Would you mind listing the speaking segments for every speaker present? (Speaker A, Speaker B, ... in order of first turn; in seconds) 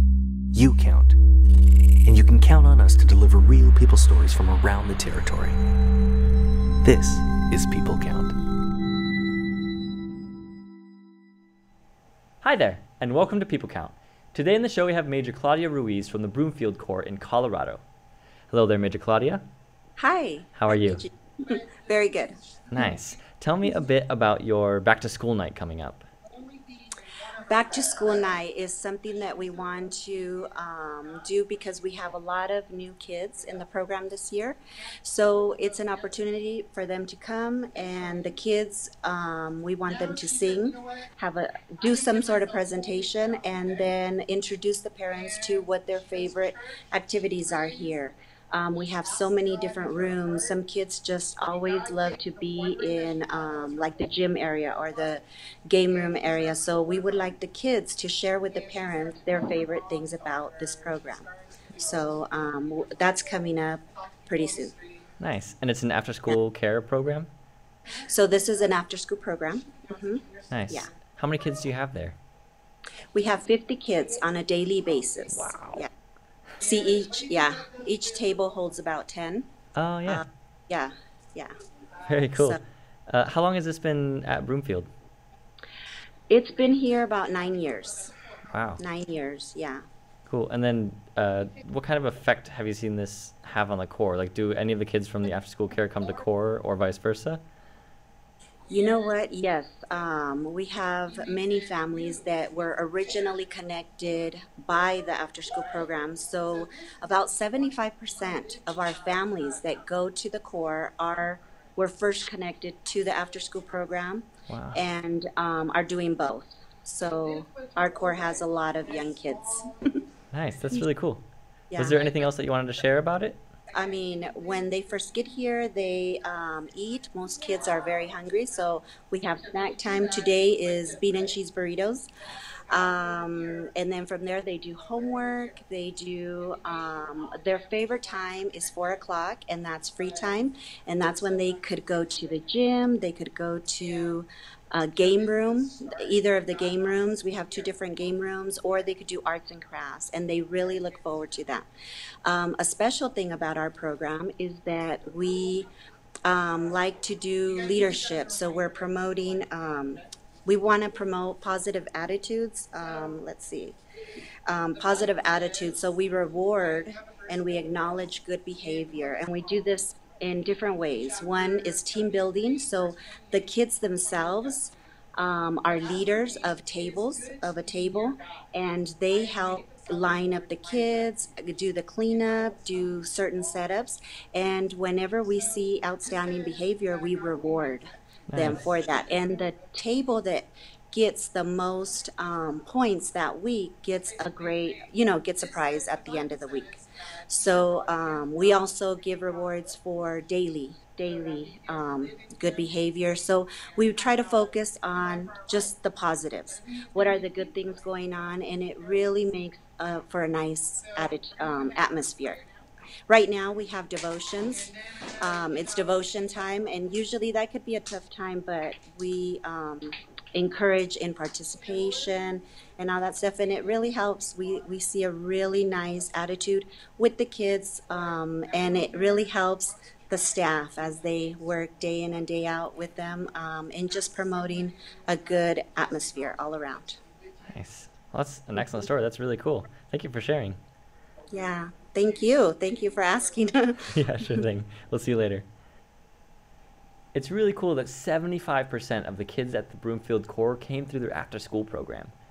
Speaker A: 0.5-1.2, 2.0-5.6, 6.8-8.3
Speaker B: 12.4-17.8, 18.5-19.4, 20.5-21.0, 22.7-26.1, 65.2-67.3, 70.5-72.2, 75.3-75.8, 79.8-80.2, 82.0-84.9, 88.5-88.8, 90.3-97.4, 114.5-114.8, 120.3-121.2, 121.8-123.4, 188.3-188.6, 237.5-240.6, 243.9-245.4, 247.1-252.1
Speaker C: 20.0-22.9, 27.4-64.8, 68.0-70.9, 73.1-75.9, 76.6-79.5, 80.0-81.5, 86.3-88.1, 88.8-89.8, 98.7-120.0, 121.7-122.0, 123.7-132.1, 132.7-151.6, 152.2-155.7, 156.2-163.8, 164.5-212.4, 213.1-237.0, 241.3-244.4